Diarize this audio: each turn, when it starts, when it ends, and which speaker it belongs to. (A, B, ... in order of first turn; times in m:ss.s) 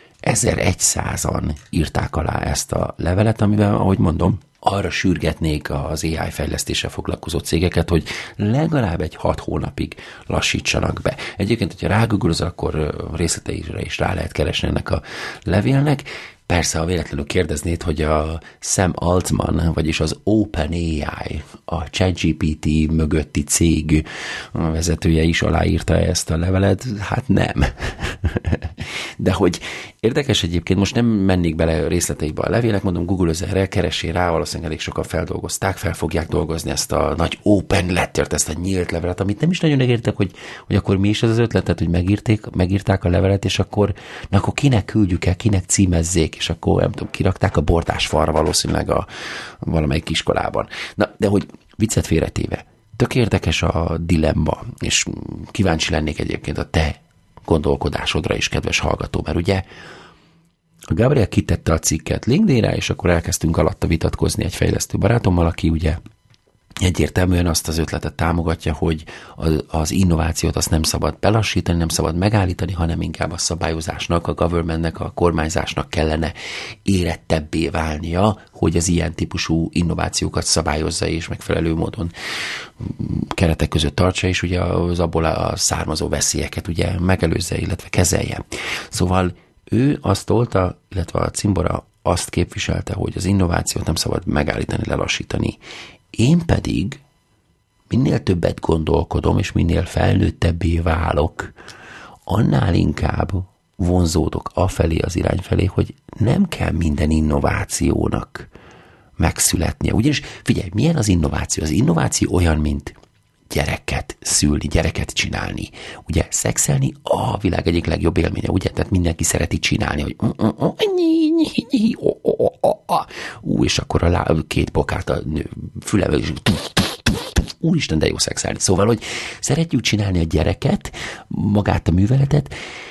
0:00.2-0:49.1 A
0:49.6-0:59.6 A
1:00.9-1:06.0 A
1:06.8-1:22.1 A
1:22.8-1:35.6 A
1:36.1-1:37.0 A
1:37.9-1:41.6 A
1:42.3-1:48.5 A
1:49.2-1:53.0 A
1:53.5-2:12.5 A